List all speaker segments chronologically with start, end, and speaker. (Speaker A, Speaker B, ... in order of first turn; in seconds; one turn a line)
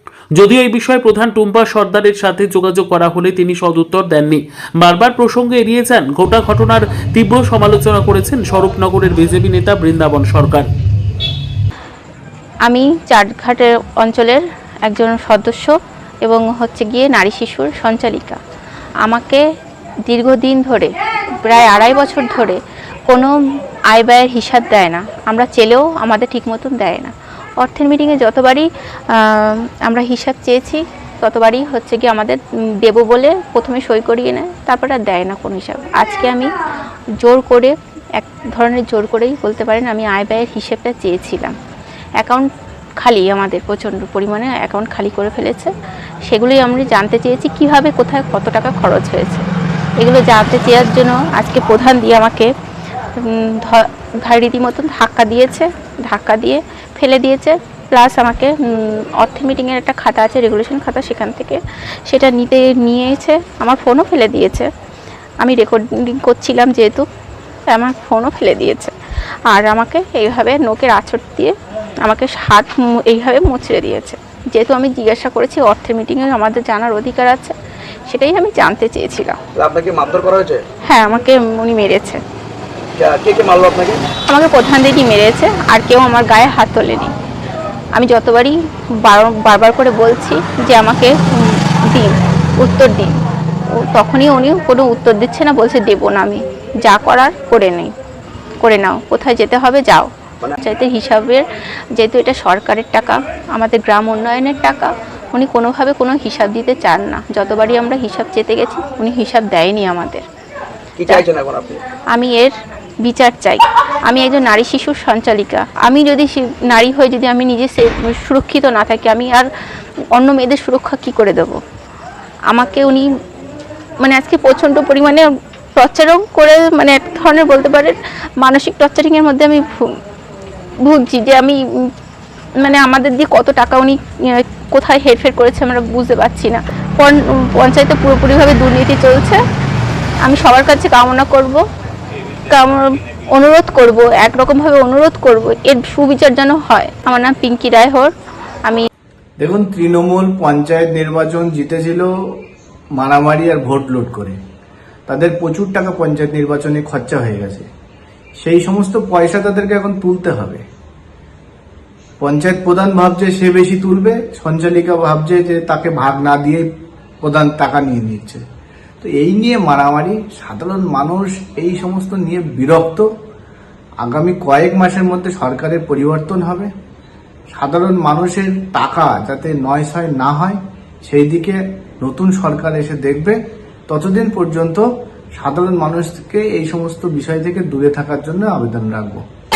Speaker A: 0.4-10.7
Speaker B: 12.7-15.7
Speaker B: 16.2-18.4
Speaker B: 19.0-19.4
Speaker B: 20.1-22.6
Speaker B: 23.9-36.5
Speaker B: 37.2-41.5
Speaker B: 42.2-42.5
Speaker B: 43.0-45.7
Speaker B: 46.3-49.4
Speaker B: 50.0-52.5
Speaker B: 53.2-64.7
Speaker B: 65.4-67.0
Speaker B: 67.7-68.9
Speaker B: 69.5-71.5
Speaker B: 72.0-77.5
Speaker B: 78.1-79.4
Speaker C: 79.6-80.6
Speaker B: 80.9-82.2
Speaker C: 83.0-84.0
Speaker B: 84.3-87.1
Speaker B: 88.0-93.1
Speaker B: 93.8-97.9
Speaker B: 98.6-100.1
Speaker B: 100.6-101.4
Speaker B: 102.0-110.2
Speaker C: 111.0-111.8
Speaker B: 112.1-112.5
Speaker B: 113.0-119.5
Speaker B: 120.1-121.6
Speaker B: 122.5-123.0
Speaker B: 124.0-125.2
Speaker B: 125.8-129.9
Speaker B: 130.8-131.6
Speaker B: 132.6-139.4
Speaker B: 140.2-141.6
Speaker B: 142.5-148.1
Speaker D: 149.4-152.1
Speaker D: 153.0-154.4
Speaker D: 155.1-157.7
Speaker D: 158.4-160.6
Speaker D: 162.2-166.7
Speaker D: 167.2-168.4
Speaker D: 169.0-173.1
Speaker D: 174.0-176.7
Speaker D: 177.5-189.2